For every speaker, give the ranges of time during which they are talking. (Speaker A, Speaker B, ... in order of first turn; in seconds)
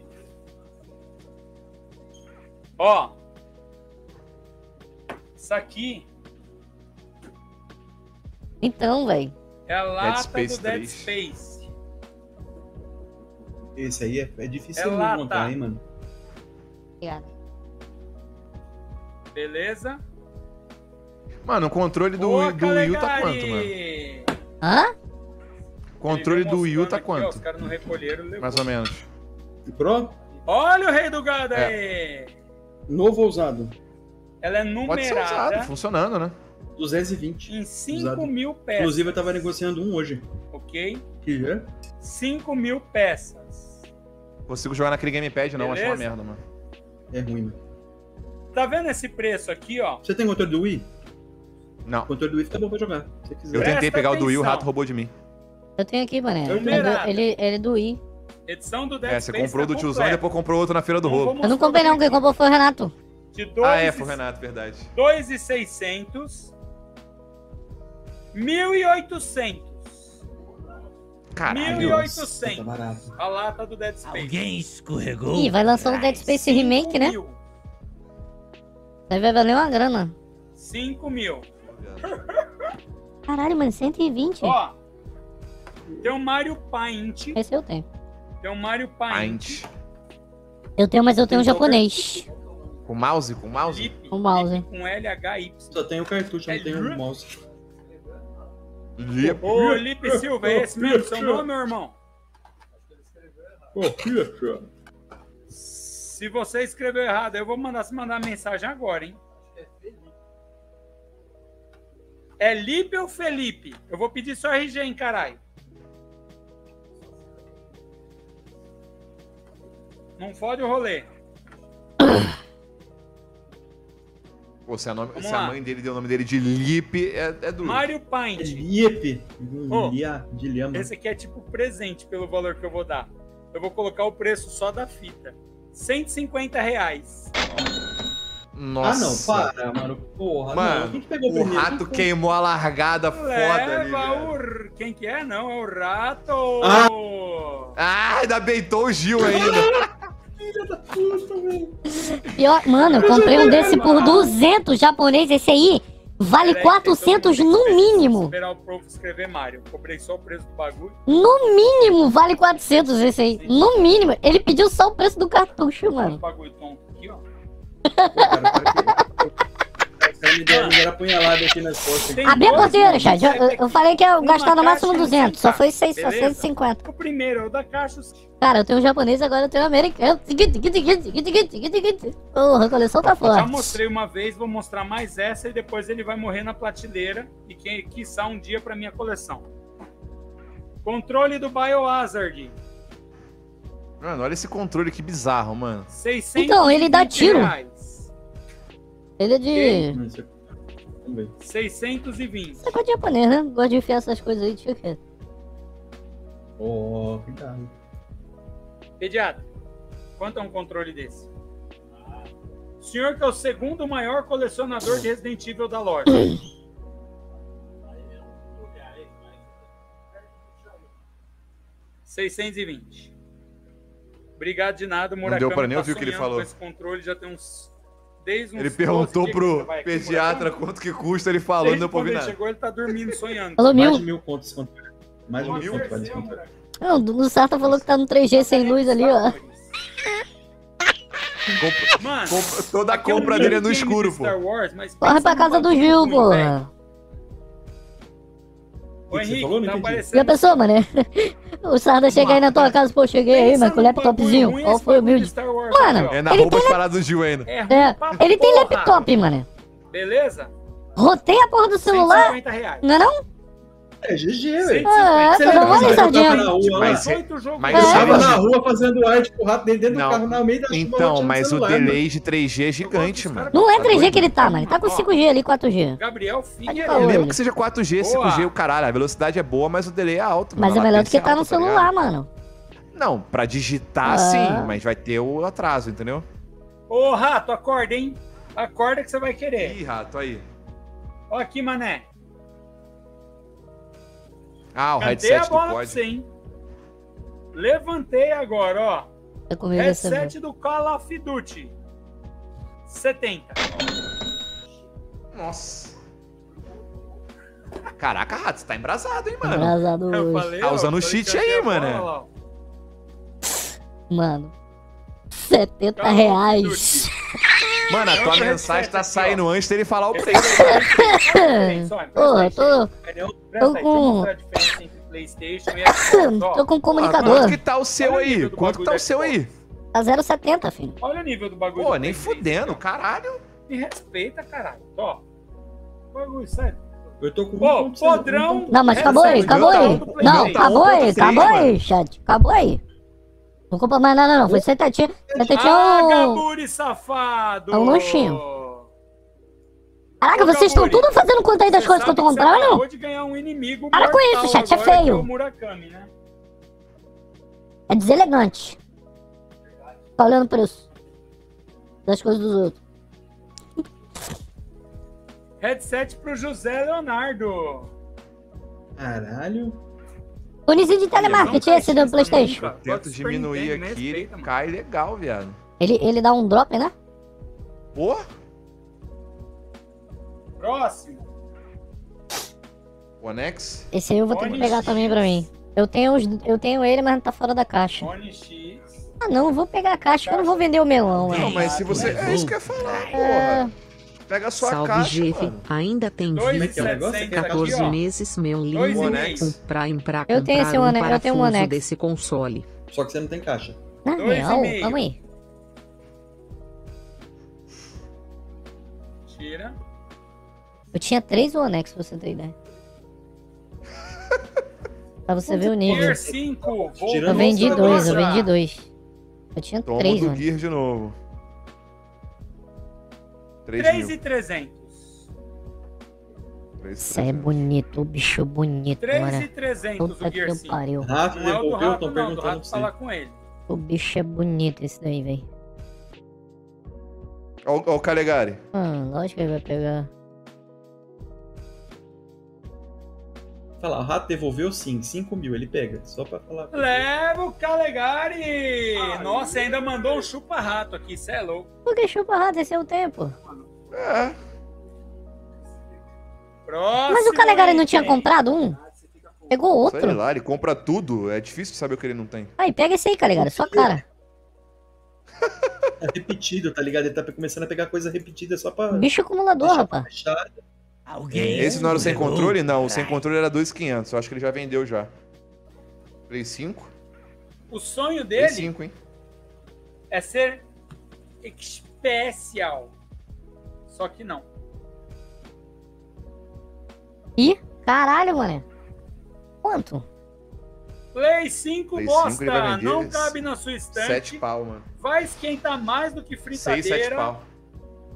Speaker A: 2.8-3.1, 5.4-6.1, 9.7-11.7, 14.8-15.5, 19.3-20.0, 22.2-24.3, 26.1-28.7, 30.5-32.3, 34.4-35.7, 37.5-39.5, 40.5-41.0, 42.0-43.9, 45.6-46.1, 48.5-50.0, 53.5-54.7, 56.5-57.2, 58.5-60.2, 61.0-62.2, 63.3-64.2, 64.9-66.5, 68.3-70.2, 71.5-72.7, 73.2-74.4, 76.3-77.4, 80.6-81.5, 82.0-82.7, 84.4-84.8, 86.0-87.4, 88.4-89.6, 93.6-95.8, 96.5-97.0, 99.4-102.0, 105.5-109.2, 112.4-115.4, 120.2-121.1, 125.1-125.6, 127.6-128.7, 129.7-130.0, 130.7-137.3, 143.1-147.8, 152.9-154.3, 156.4-161.0, 163.3-163.9, 166.0-167.2, 170.5-170.8, 172.1-178.1, 183.0-189.5, 190.8-192.6, 195.9-198.1, 199.5-199.9, 201.4-202.8, 209.0-209.4, 210.2-211.3, 212.8-216.4, 222.1-223.1, 224.4-230.6, 231.6-233.8, 235.4-236.5, 238.3-239.7, 242.0-246.6, 249.1-250.6, 252.1-252.8, 253.3-256.2, 257.4-259.1, 259.9-260.5, 261.9-262.9, 264.6-268.4, 272.8-275.1, 276.0-277.3, 278.0-278.5, 286.9-289.8, 291.3-292.1, 295.0-296.3, 297.5-299.1, 299.7-301.7, 302.9-303.6, 310.1-312.3, 316.0-317.1, 318.1-319.4, 320.1-322.8, 323.5-326.7, 327.2-329.5, 331.0-332.8, 333.7-335.2, 336.1-336.8, 337.6-341.5, 345.5-348.9, 350.3-356.1, 365.6-367.9, 371.2-374.5, 380.6-381.3, 384.3-385.4, 388.0-388.9, 390.1-392.4, 396.3-398.0, 398.7-399.6, 404.2-405.0, 409.3-409.8, 415.6-418.5, 423.8-425.3, 429.0-433.4, 446.7-451.7, 456.7-458.3, 477.7-478.7, 480.1-480.6, 481.4-482.9, 483.9-484.5, 491.1-494.4, 495.0-497.4
Speaker B: 8.6-9.3, 17.0-17.3, 24.6-24.9, 55.8-58.0, 61.4-62.9, 75.3-77.2, 79.1-80.1, 83.3-84.6, 87.3-87.8, 90.8-92.3, 94.1-94.7, 152.0-158.3, 161.1-166.2, 167.9-168.7, 172.2-176.8, 178.4-183.8, 196.4-197.5, 199.2-200.0, 202.6-205.0, 233.6-234.0, 236.8-239.3, 245.0-246.7, 250.1-256.8, 257.7-259.5, 261.0-263.2, 264.9-266.6, 267.7-268.3, 273.5-276.0, 276.7-277.4, 280.6-282.3, 284.0-284.8, 299.5-300.3, 309.4-310.5, 314.1-314.5, 315.3-317.1, 320.5-322.9, 323.6-324.3, 325.7-327.6, 329.9-331.0, 338.7-342.8, 343.7-346.4, 347.7-348.4, 350.2-352.8, 353.9-355.3, 357.9-358.8, 360.2-360.8, 362.1-362.8, 370.7-372.7, 375.8-376.9, 383.9-388.1, 389.2-391.6, 393.1-393.7, 400.3-401.8, 404.1-405.2, 410.9-412.5, 415.3-416.2, 417.2-418.9, 419.6-420.4, 427.0-429.5, 430.0-431.1, 433.7-435.4, 438.7-440.1, 451.9-453.4, 457.1-458.8, 459.5-460.2, 462.6-464.0, 468.9-470.1, 487.4-488.6, 489.6-490.1
Speaker C: 10.0-11.1, 21.4-23.7, 26.0-27.4, 28.4-29.1, 34.9-36.4, 44.5-46.4, 51.9-52.1, 53.5-55.1, 59.0-61.4, 63.6-64.9, 71.3-72.1, 81.7-82.1, 89.1-89.7, 92.9-93.9, 99.0-99.5, 124.7-127.8, 138.5-139.5, 140.5-144.3, 147.8-149.8, 194.0-195.9, 225.2-226.5, 228.6-232.4, 235.4-236.1, 237.6-237.9, 241.5-244.4, 256.1-257.5, 265.6-268.4, 269.9-274.3, 276.9-281.9, 282.9-286.3, 289.6-290.4, 294.8-296.0, 305.3-306.0, 308.0-309.8, 310.6-312.1, 317.9-320.8, 326.9-329.5, 331.8-333.4, 339.4-341.7, 371.1-371.7, 372.7-375.6, 378.0-378.3, 383.2-383.9, 391.3-393.7, 394.3-395.6, 398.9-399.6, 419.9-421.2, 423.7-424.2, 426.8-427.6, 437.6-438.6, 453.9-454.4, 459.9-462.5, 465.4-465.9, 471.6-475.1, 476.3-476.9, 478.4-478.9, 491.9-493.4, 493.9-494.9, 496.5-497.4
Speaker D: 13.8-15.8, 29.7-30.1, 32.9-33.8, 36.8-40.3, 41.2-41.7, 47.1-47.6, 50.0-50.9, 52.1-53.8, 56.5-56.9, 71.6-73.2, 85.9-86.1, 91.3-91.9, 95.7-97.3, 99.2-101.5, 103.7-104.7, 128.4-130.9, 138.8-142.1, 146.6-146.9, 149.2-149.8, 150.4-151.8, 152.9-154.3, 168.2-169.3, 170.0-173.1, 199.9-200.3, 201.0-201.3, 206.6-207.7, 233.7-236.4, 243.2-243.6, 249.1-250.1, 264.0-267.1, 267.7-272.0, 323.0-323.4, 337.2-339.6, 345.3-345.6, 369.0-369.8, 396.5-398.0, 402.9-403.8, 415.7-418.3, 431.0-432.9, 443.8-447.1, 449.0-450.1, 463.4-464.0, 466.0-469.1, 469.6-470.5, 471.3-472.0
Speaker E: 74.0-76.4, 391.2-393.4, 471.1-473.2
Speaker F: 394.6-402.7